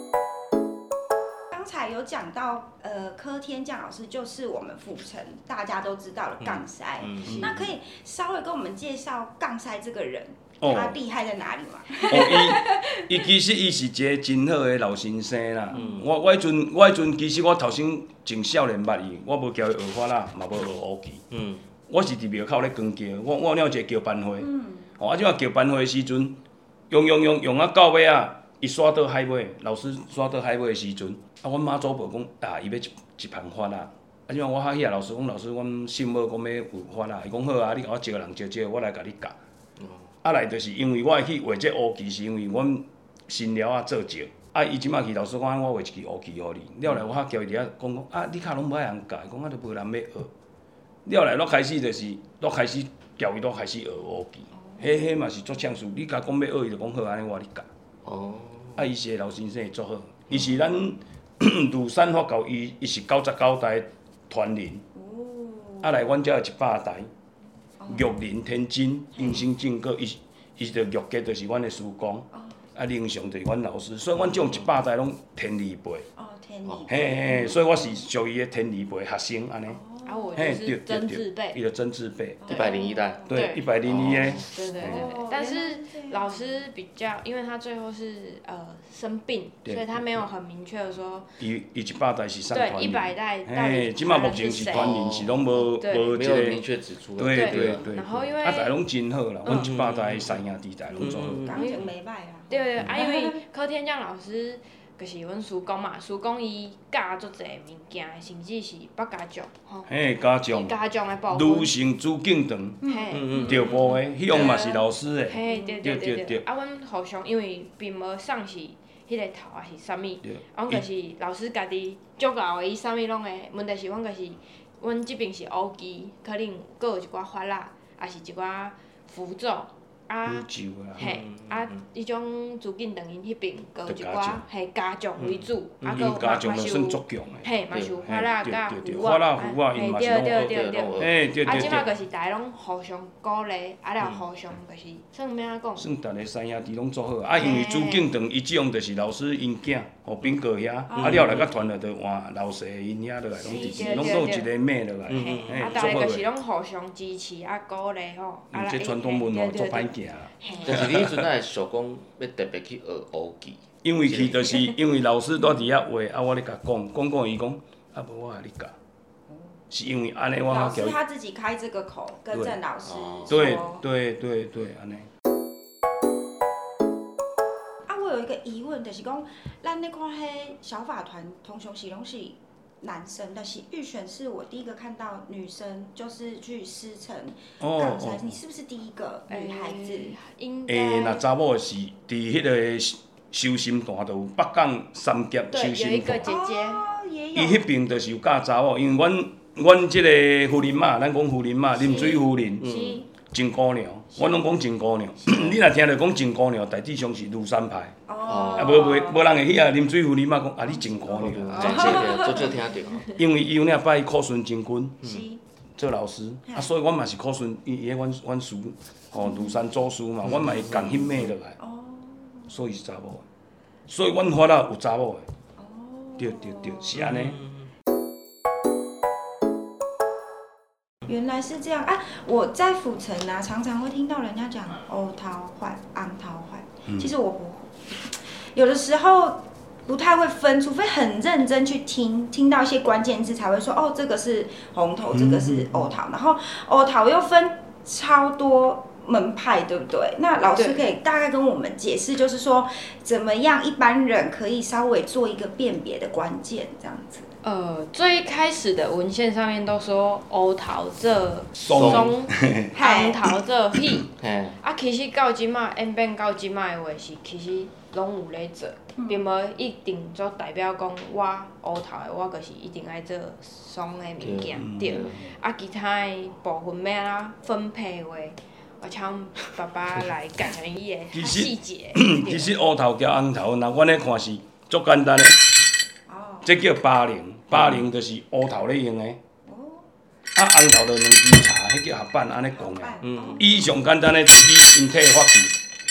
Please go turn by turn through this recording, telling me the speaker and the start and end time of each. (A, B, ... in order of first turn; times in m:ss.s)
0:01.5-0:12.9 A
0:06.4-0:07.7 B
0:10.6-0:11.0 C
0:12.1-0:21.2 C
0:15.7-0:16.0 B
0:21.3-0:21.6 B
0:21.9-0:26.4 C
0:24.4-0:24.7 A
0:26.9-0:39.3 C
0:39.8-0:40.1 B
0:40.2-0:50.3 C
0:51.0-0:57.6 C
0:58.0-0:58.8 B
0:58.8-1:04.8 C
1:04.9-1:06.0 A
1:05.8-1:07.1 C
1:07.8-1:08.0 A
1:07.9-1:16.0 C
1:09.2-1:09.4 A
1:14.2-1:14.6 B
1:16.2-1:18.0 A
1:16.9-1:19.8 C
1:19.7-1:20.3 A
1:20.0-1:21.6 D
1:20.4-1:22.4 C
1:22.4-1:23.3 A
1:22.5-1:22.7 D
1:22.5-1:24.5 B
1:23.2-1:25.0 C
1:23.3-1:23.6 D
1:24.4-1:31.3 D
1:24.8-1:26.4 A
1:29.6-1:30.2 C
1:31.4-1:36.6 C
1:32.5-1:34.9 D
1:34.7-1:35.5 B
1:35.6-1:36.1 D
1:36.1-1:37.9 B
1:37.2-1:41.5 C
1:37.3-1:38.7 D
1:39.4-1:39.7 D
1:39.5-1:40.4 B
1:41.0-1:41.6 B
1:41.4-1:43.4 A
1:41.5-1:41.8 D
1:42.5-1:49.9 D
1:49.8-1:50.7 C
1:50.5-1:51.7 D
1:51.3-1:56.4 C
1:52.8-1:53.6 A
1:52.8-2:25.9 D
1:53.1-1:53.9 B
1:55.5-1:55.8 A
2:00.2-2:00.8 C
2:10.2-2:11.2 C
2:11.0-2:11.8 B
2:13.8-2:14.4 C
2:15.2-2:16.0 B
2:15.8-2:17.4 C
2:18.0-2:21.9 C
2:20.3-2:21.9 B
2:25.8-2:36.3 C
2:27.4-2:28.1 D
2:30.9-2:31.2 A
2:31.0-2:31.5 B
2:33.4-2:34.5 D
2:33.4-2:34.0 A
2:35.1-2:35.9 B
2:35.1-2:40.8 D
2:38.5-2:41.2 C
2:40.6-2:44.5 B
2:43.8-2:48.7 C
2:49.7-2:51.0 C
2:50.5-2:53.8 A
2:52.8-2:53.6 B
2:53.3-2:55.1 C
2:57.8-3:10.1 A
3:07.6-3:08.3 C
3:09.3-3:11.2 D
3:10.7-3:16.3 C
3:15.5-3:16.8 D
3:16.2-3:17.6 A
3:17.3-3:22.6 C
3:21.8-3:22.2 A
3:22.6-3:23.0 B
3:22.6-3:23.0 D
3:23.2-3:28.0 C
3:28.1-3:29.3 A
3:28.2-3:28.9 B
3:28.6-3:32.1 C
3:30.7-3:32.5 A
3:31.2-3:33.0 B
3:31.5-3:33.1 D
3:33.1-3:35.0 C
3:35.0-3:35.4 A
3:35.8-3:41.6 C
3:39.1-3:39.6 A
3:40.2-3:41.2 B
3:41.6-3:42.5 A
3:42.5-3:43.2 C
3:43.9-3:45.2 C
3:45.6-3:47.0 A
3:46.2-3:47.4 C
3:47.0-3:47.6 B
3:51.0-4:17.3 A
4:05.1-4:05.7 C
4:10.5-4:10.9 D
4:17.4-4:24.1 D
4:21.6-4:22.7 C
4:21.7-4:22.1 B
4:22.7-4:23.2 A
4:24.2-4:24.6 B
4:24.6-4:42.5 D
4:29.0-4:29.2 A
4:34.2-4:35.2 B
4:34.6-4:35.0 C
4:41.1-4:45.4 C
4:46.1-4:46.5 A
4:46.4-4:49.2 C
4:47.5-4:47.8 B
4:49.4-4:49.8 A
4:50.3-4:55.5 C
4:52.5-4:53.7 A
4:53.0-4:53.5 B